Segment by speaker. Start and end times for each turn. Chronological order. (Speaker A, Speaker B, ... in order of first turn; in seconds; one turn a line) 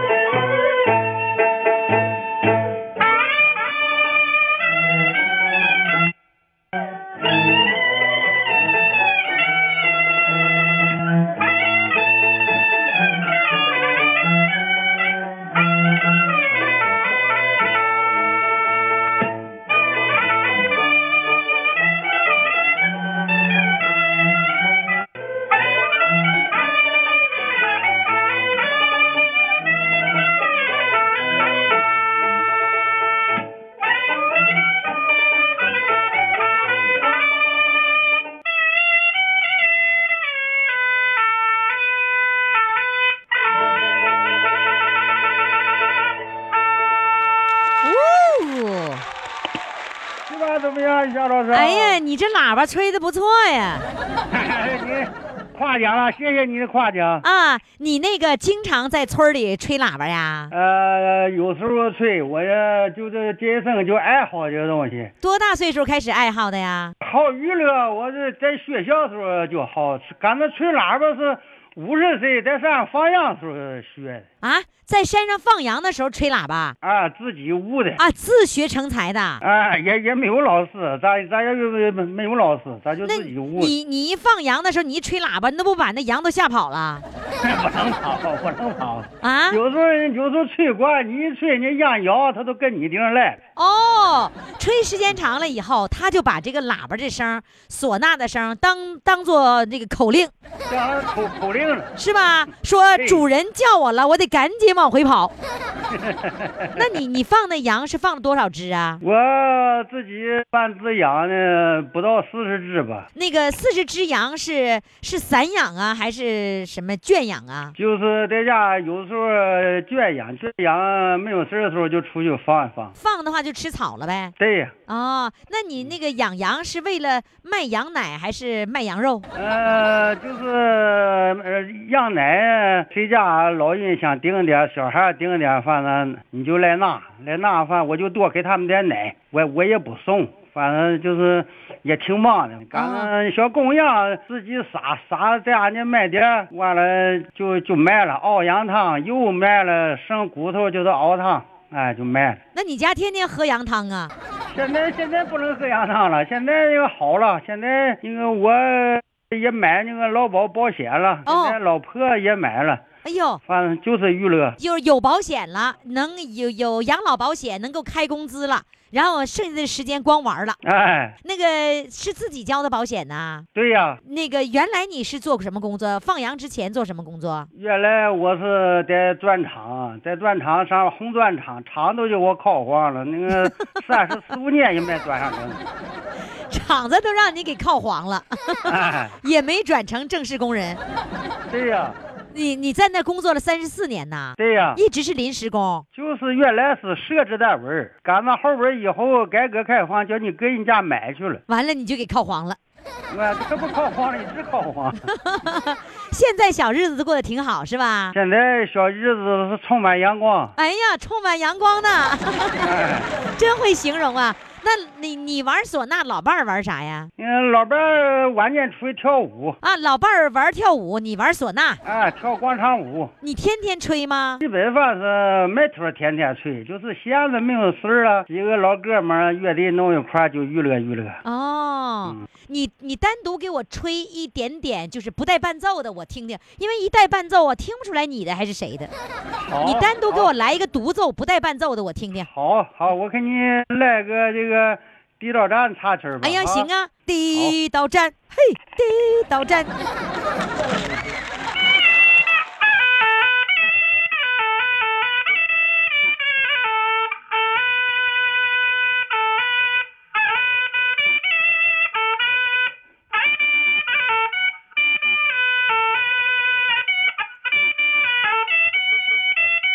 Speaker A: 47.8-49.0
Speaker B: 50.3-52.0
Speaker A: 51.5-53.9
Speaker B: 54.3-57.2
Speaker A: 57.2-60.5
Speaker B: 60.5-65.1
Speaker A: 65.2-66.9
Speaker B: 67.0-74.2
Speaker A: 74.4-76.8
Speaker B: 76.8-78.0
Speaker A: 78.0-79.4
Speaker B: 79.4-83.7
Speaker A: 83.0-87.0
Speaker B: 87.4-93.4
Speaker A: 89.2-89.6
Speaker A: 93.5-100.3
Speaker B: 100.7-101.9
Speaker A: 102.0-105.3
Speaker B: 103.0-103.2
Speaker B: 105.9-106.8
Speaker A: 106.7-109.0
Speaker B: 109.0-113.1
Speaker A: 113.1-117.7
Speaker B: 117.8-122.9
Speaker A: 123.0-124.3
Speaker B: 124.4-124.7
Speaker A: 124.9-129.3
Speaker B: 129.3-152.4
Speaker A: 142.7-143.1
Speaker A: 152.5-154.1
Speaker B: 154.5-162.8
Speaker A: 161.2-161.6
Speaker A: 163.0-163.4
Speaker B: 163.4-164.6
Speaker A: 164.6-170.6
Speaker B: 170.6-171.1
Speaker A: 171.2-173.4
Speaker B: 173.5-174.0
Speaker A: 174.0-177.5
Speaker B: 177.5-185.6
Speaker A: 186.5-190.8
Speaker B: 188.7-189.2
Speaker B: 191.5-192.0
Speaker A: 192.3-195.8
Speaker B: 194.4-194.8
Speaker B: 195.9-201.4
Speaker A: 201.5-202.6
Speaker B: 203.1-205.0
Speaker A: 205.1-208.2
Speaker B: 208.1-210.5
Speaker A: 210.6-212.7
Speaker B: 212.6-213.1
Speaker A: 213.3-217.1
Speaker B: 217.2-219.6
Speaker A: 219.6-221.8
Speaker B: 221.8-223.1
Speaker A: 223.2-224.4
Speaker B: 224.4-231.2
Speaker A: 231.2-238.9
Speaker B: 239.4-240.3
Speaker A: 239.6-242.3
Speaker B: 242.3-246.7
Speaker A: 246.2-249.7